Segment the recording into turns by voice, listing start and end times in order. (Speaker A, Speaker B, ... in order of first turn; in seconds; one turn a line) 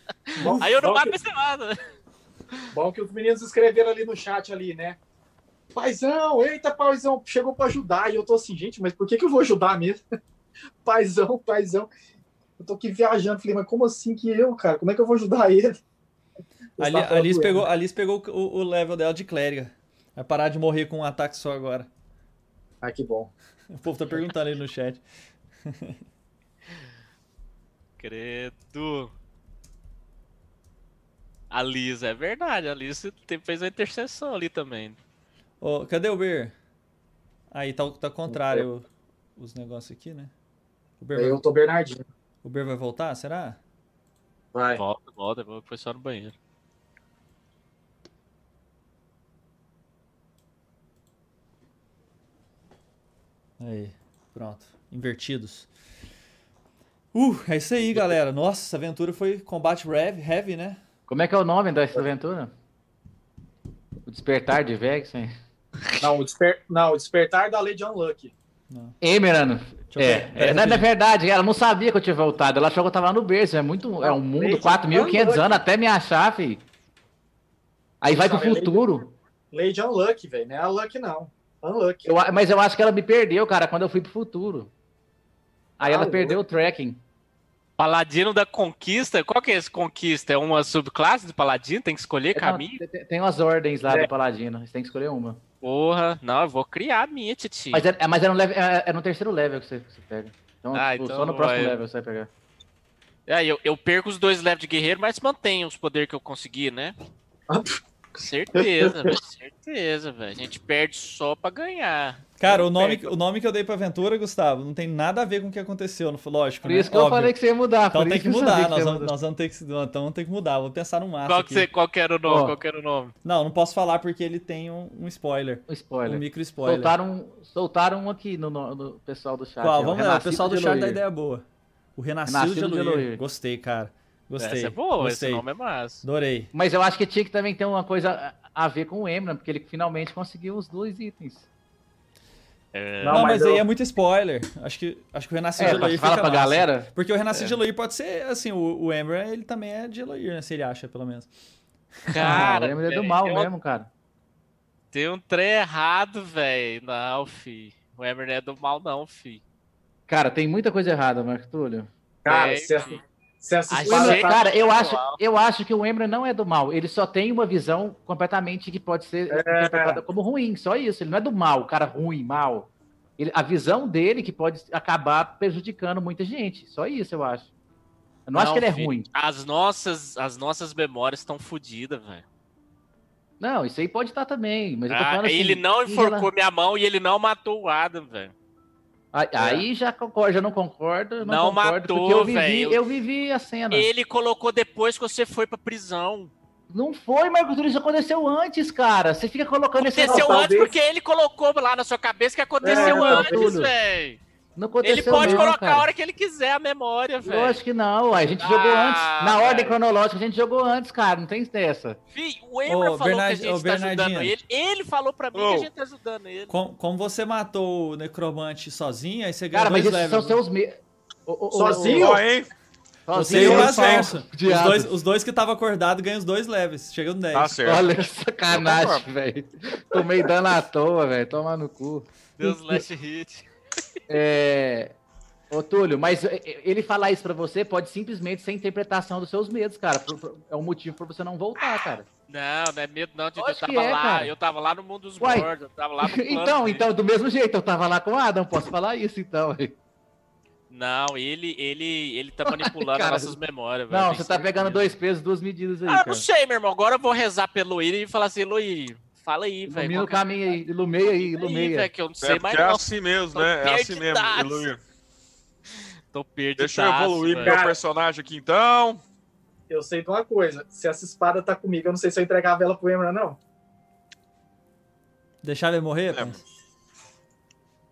Speaker A: 0.3-1.8
Speaker B: 0.3-1.1
Speaker B: 2.7-5.0
Speaker B: 5.7-10.0
Speaker B: 10.8-11.9
Speaker B: 12.6-15.8
Speaker B: 16.8-17.6
Speaker C: 16.8-21.9
Speaker B: 22.8-23.3
Speaker C: 23.7-25.0
Speaker C: 25.6-26.0
Speaker A: 28.0-29.1
Speaker A: 31.5-35.0
Speaker C: 35.6-36.5
Speaker C: 37.5-38.9
Speaker C: 39.4-40.3
Speaker C: 41.0-41.4
Speaker B: 41.1-42.0
Speaker C: 42.4-43.6
Speaker B: 44.5-44.8
Speaker A: 44.8-46.3
Speaker C: 53.6-55.7
Speaker C: 57.1-60.8
Speaker D: 61.1-62.5
Speaker D: 64.0-65.3
Speaker B: 66.0-68.3
Speaker C: 68.7-68.9
Speaker D: 69.0-76.6
Speaker C: 69.9-70.9
Speaker B: 74.0-75.6
Speaker D: 78.0-79.0
Speaker B: 78.1-82.3
Speaker D: 82.0-84.7
Speaker D: 85.8-87.0
Speaker B: 85.8-86.4
Speaker A: 87.8-92.8
Speaker D: 92.3-95.4
Speaker A: 95.6-97.9
Speaker D: 97.7-102.3
Speaker A: 100.7-101.8
Speaker A: 103.3-106.9
Speaker B: 107.5-107.8
Speaker A: 108.2-113.1
Speaker B: 108.6-109.1
Speaker C: 112.4-117.3
Speaker D: 116.6-119.1
Speaker C: 117.9-121.7
Speaker A: 121.2-123.1
Speaker D: 122.2-122.5
Speaker C: 123.2-126.9
Speaker D: 125.7-131.0
Speaker C: 129.6-131.4
Speaker C: 131.9-135.4
Speaker D: 132.3-133.2
Speaker A: 134.4-136.0
Speaker C: 136.0-136.5
Speaker D: 136.5-141.4
Speaker A: 142.7-143.3
Speaker B: 143.0-143.7
Speaker C: 143.1-151.3
Speaker D: 145.6-146.9
Speaker C: 152.1-152.6
Speaker A: 152.1-153.5
Speaker D: 152.2-153.9
Speaker A: 154.9-159.4
Speaker D: 160.1-161.9
Speaker B: 162.2-164.7
Speaker A: 162.2-163.0
Speaker A: 163.7-165.2
Speaker D: 163.8-177.5
Speaker B: 169.3-170.0
Speaker D: 178.2-179.1
Speaker A: 178.3-182.2
Speaker D: 183.4-186.3
Speaker A: 184.9-188.3
Speaker D: 189.1-193.9
Speaker A: 189.4-189.7
Speaker A: 191.2-192.8
Speaker A: 193.7-196.3
Speaker D: 196.7-200.3
Speaker A: 199.8-204.2
Speaker B: 200.0-200.7
Speaker D: 202.6-203.7
Speaker B: 202.6-203.5
Speaker D: 204.6-205.9
Speaker A: 204.8-207.6
Speaker B: 205.1-205.4
Speaker D: 207.2-212.0
Speaker A: 208.4-209.8
Speaker A: 212.1-216.6
Speaker C: 212.7-214.3
Speaker E: 215.3-215.7
Speaker C: 216.5-220.4
Speaker D: 219.5-222.2
Speaker B: 221.5-222.2
Speaker E: 221.9-222.5
Speaker D: 223.1-224.9
Speaker C: 223.1-227.6
Speaker E: 223.1-224.2
Speaker E: 227.3-227.9
Speaker D: 227.6-232.1
Speaker E: 228.5-229.1
Speaker A: 232.4-233.4
Speaker D: 234.1-234.9
Speaker D: 235.5-242.1
Speaker A: 242.3-246.8
Speaker D: 243.4-244.3
Speaker D: 245.2-249.8
Speaker A: 250.7-254.9
Speaker D: 252.4-253.4
Speaker D: 253.9-256.2
Speaker A: 255.9-260.2
Speaker D: 259.7-261.9
Speaker A: 261.0-264.7
Speaker E: 262.2-264.8
Speaker A: 266.1-267.6
Speaker E: 266.6-269.0
Speaker B: 267.4-267.8
Speaker B: 269.7-273.4
Speaker C: 275.4-276.4
Speaker E: 276.1-276.4